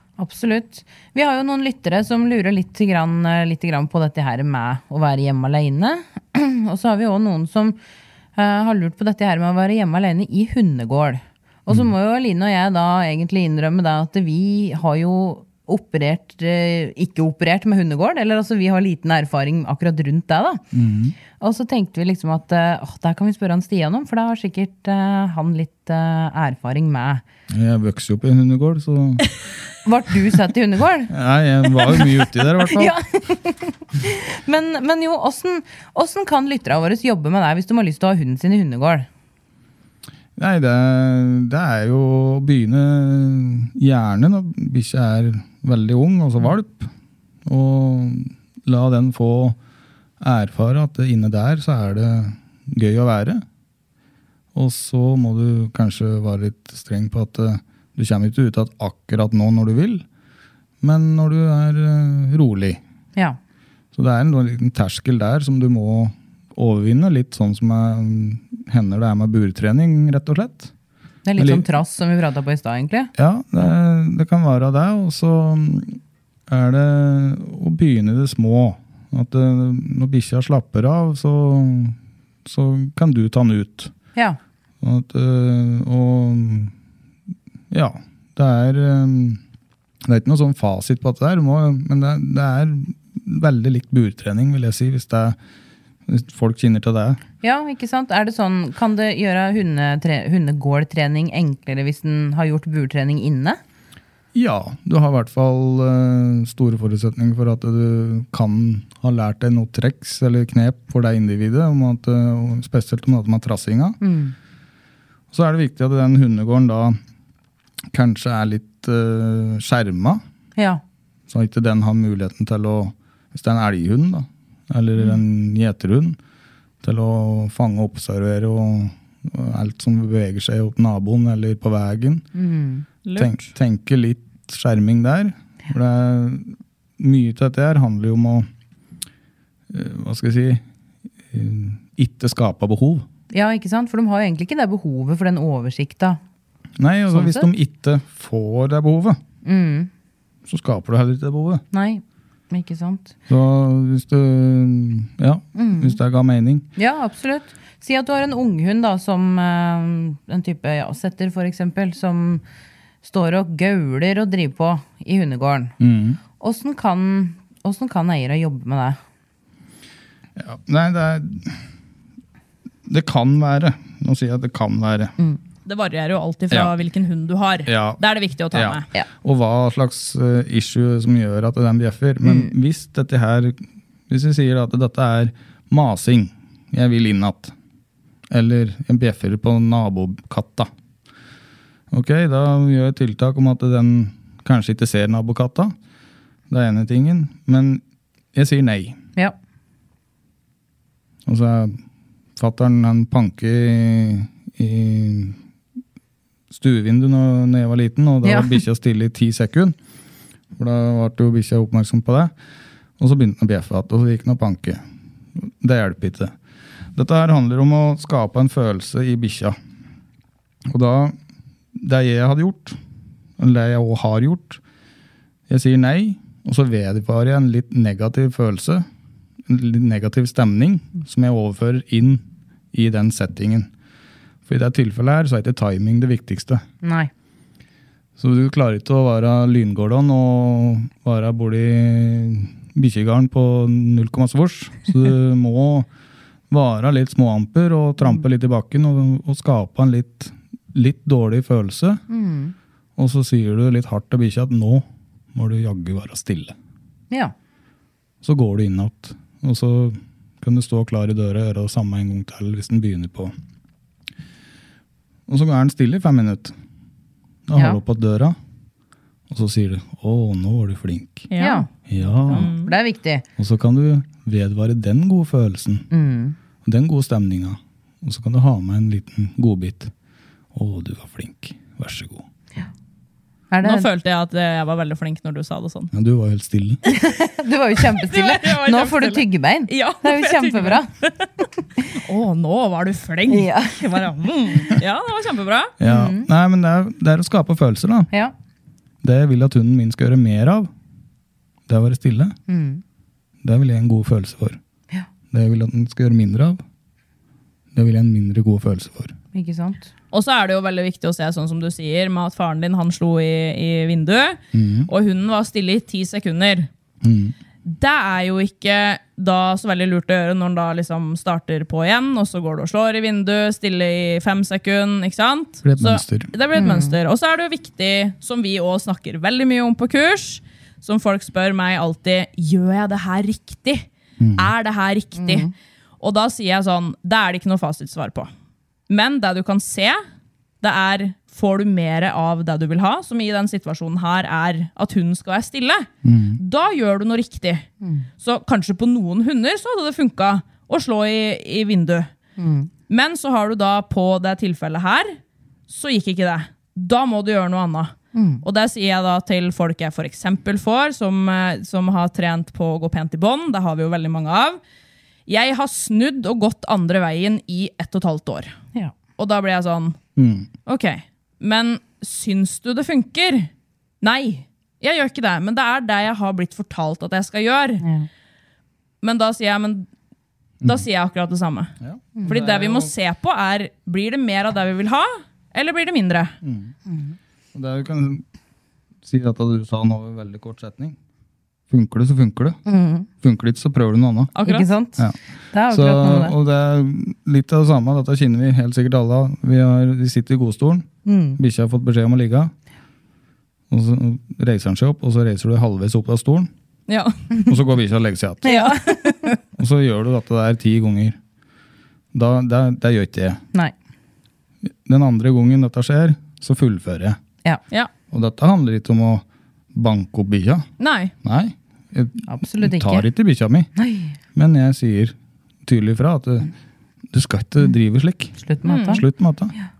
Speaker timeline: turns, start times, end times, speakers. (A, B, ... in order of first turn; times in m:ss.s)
0:00.2-0:07.8 A
0:08.4-0:20.6 A
0:20.7-0:21.2 B
0:21.4-0:27.2 A
0:27.5-0:29.3 B
0:29.8-0:31.1 A
0:31.1-0:32.9 B
0:32.7-0:39.1 A
0:40.4-0:46.9 B
0:47.4-0:49.6 B
0:50.2-0:53.4 B
0:54.5-1:00.0 B
1:00.8-1:02.8 B
1:03.9-1:10.7 B
1:11.2-1:13.1 A
1:11.4-1:11.7 B
1:13.2-1:23.9 B
1:24.8-1:26.7 B
1:27.7-1:29.4 B
1:30.0-1:35.4 B
1:36.1-1:37.2 B
1:37.4-1:43.6 A
1:44.3-1:54.0 B
1:54.0-1:54.3 A
1:55.3-1:57.0 B
1:57.9-2:00.2 B
2:00.6-2:00.8 A
2:01.3-2:06.2 B
2:06.8-2:12.2 B
2:12.3-2:12.8 A
2:13.0-2:13.4 C
2:13.2-2:18.5 B
2:19.7-2:20.6 B
2:21.3-2:23.0 B
2:23.3-2:26.2 A
2:26.8-2:29.2 B
2:27.1-2:27.5 A
2:29.4-2:29.9 A
2:30.5-2:31.6 B
2:31.7-2:33.1 A
2:33.3-2:36.7 B
2:35.6-2:36.0 A
2:36.8-2:42.4 A
2:43.0-2:45.7 A
2:45.8-2:46.2 B
2:46.4-2:49.0 A
2:50.4-2:51.6 B
2:52.8-2:55.1 B
2:55.6-2:58.8 C
2:57.6-2:58.0 B
2:58.5-3:07.5 B
3:02.2-3:02.5 A
3:08.3-3:10.7 B
3:11.9-3:15.7 B
3:16.5-3:17.8 B
3:18.3-3:19.0 B
3:21.2-3:21.8 B
3:22.4-3:25.4 B
3:26.5-3:29.7 B
3:28.2-3:28.6 A
3:30.5-3:32.3 B
3:33.0-3:34.8 B
3:35.3-3:36.3 B
3:36.9-3:39.6 B
3:40.7-3:41.2 B
3:41.7-3:42.8 B
3:43.4-3:44.6 B
3:45.5-3:48.8 B
3:49.5-3:53.7 B
3:54.5-3:56.6 B
3:56.8-3:57.1 A
3:58.2-4:05.9 B
4:06.5-4:12.0 B
4:12.1-4:12.5 A
4:13.0-4:16.5 B
4:18.2-4:23.3 B
4:25.3-4:26.5 B
4:27.5-4:28.4 B
4:27.5-4:27.8 A
4:29.3-4:31.3 B
4:31.3-4:31.6 C
4:31.4-4:31.7 A
4:31.9-4:32.5 B
4:32.3-4:33.2 A
4:32.3-4:32.7 C
4:33.4-4:35.9 B
4:35.9-4:36.4 A
4:36.6-4:39.9 B
4:40.5-4:42.2 B
4:43.5-4:43.9 A
4:43.6-4:45.9 C
4:45.9-4:46.8 B
4:46.9-4:50.9 A
4:47.8-4:51.3 C
4:51.9-4:55.7 C
4:53.3-4:54.8 A
4:55.8-4:58.1 B
4:55.8-4:56.3 A
4:59.0-5:00.7 B
5:01.7-5:02.4 B
5:02.5-5:02.8 A
5:03.4-5:04.6 B
5:05.3-5:06.6 B
5:07.7-5:09.1 B
5:09.3-5:09.9 A
5:10.1-5:16.7 C
5:14.5-5:14.9 B
5:17.0-5:17.3 B
5:17.6-5:35.5 C
5:25.6-5:26.3 B
5:26.5-5:27.0 A
5:34.2-5:34.5 B
5:35.2-5:35.5 A
5:36.0-5:38.3 C
5:38.9-5:40.0 C
5:40.6-5:47.7 C
5:46.0-5:46.4 B
5:48.2-5:52.1 C
5:52.4-5:52.7 A
5:52.9-5:55.2 C
5:55.7-6:04.6 C
5:58.1-5:58.4 A
6:05.3-6:08.5 C
6:09.2-6:10.0 C
6:10.2-6:10.5 B
6:10.6-6:13.5 C
6:14.0-6:17.8 C
6:17.8-6:18.1 A
6:19.0-6:19.9 C
6:20.6-6:21.7 C
6:21.8-6:22.9 B
6:22.3-6:26.3 C
6:26.4-6:26.7 B
6:26.9-6:27.1 A
6:27.5-6:28.2 B
6:29.0-6:31.0 B
6:31.7-6:32.6 B
6:32.6-6:33.1 A
6:33.1-6:34.3 B
6:34.3-6:34.7 C
6:34.4-6:36.4 A
6:35.7-6:42.5 B
6:41.0-6:41.4 A
6:43.7-6:46.5 B
6:46.9-6:47.3 C
6:47.4-6:48.6 B
6:48.4-6:49.3 A
6:48.5-6:49.4 C
6:49.6-6:51.2 B
6:52.1-6:53.4 B
6:54.8-6:57.2 B
6:58.1-7:00.7 B
7:00.8-7:01.1 C
7:01.2-7:03.7 B
7:02.3-7:03.1 A
7:03.8-7:04.2 A
7:04.3-7:06.5 B
7:07.1-7:08.4 B
7:08.4-7:09.0 A
7:08.6-7:09.0 C
7:08.9-7:09.5 B